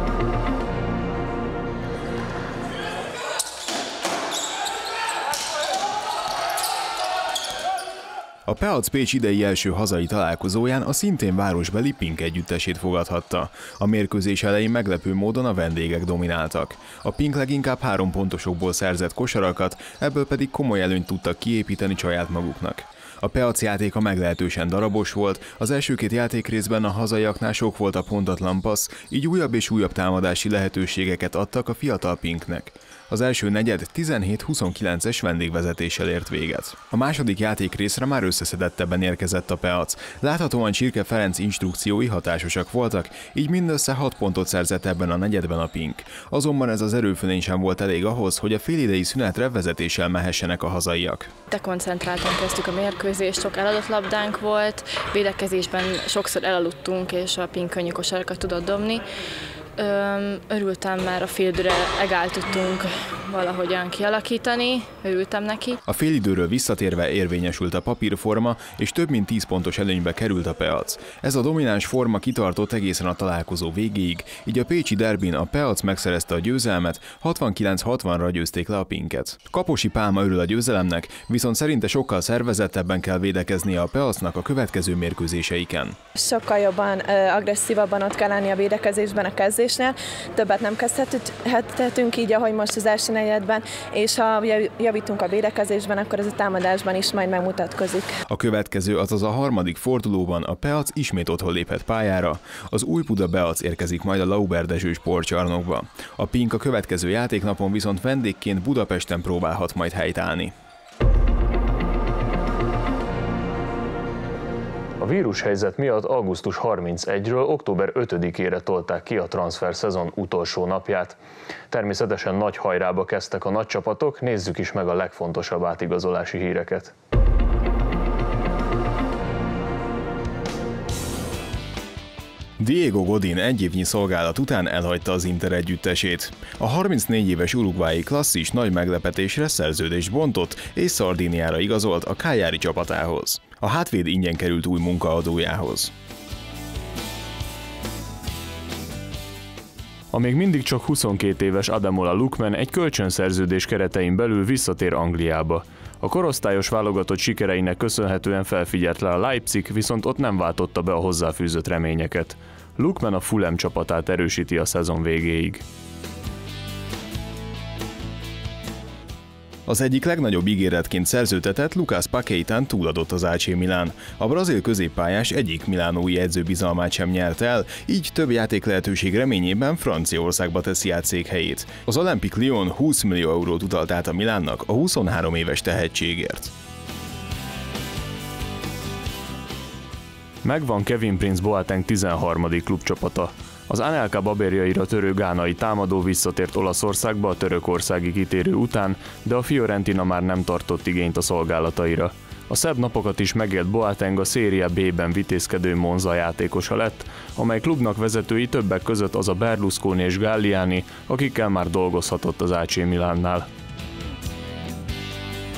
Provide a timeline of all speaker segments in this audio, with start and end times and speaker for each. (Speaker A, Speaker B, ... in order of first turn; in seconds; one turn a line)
Speaker A: 8.4-51.3
Speaker B: 51.5-59.0
Speaker B: 59.8-65.8
Speaker A: 65.8-86.0
Speaker C: 86.2-98.2
Speaker A: 98.3-110.5
Speaker D: 115.0-121.2
Speaker D: 121.7-126.9
Speaker A: 132.6-145.9
Speaker D: 150.1-165.6
Speaker A: 169.7-186.5
Speaker D: 190.4-213.5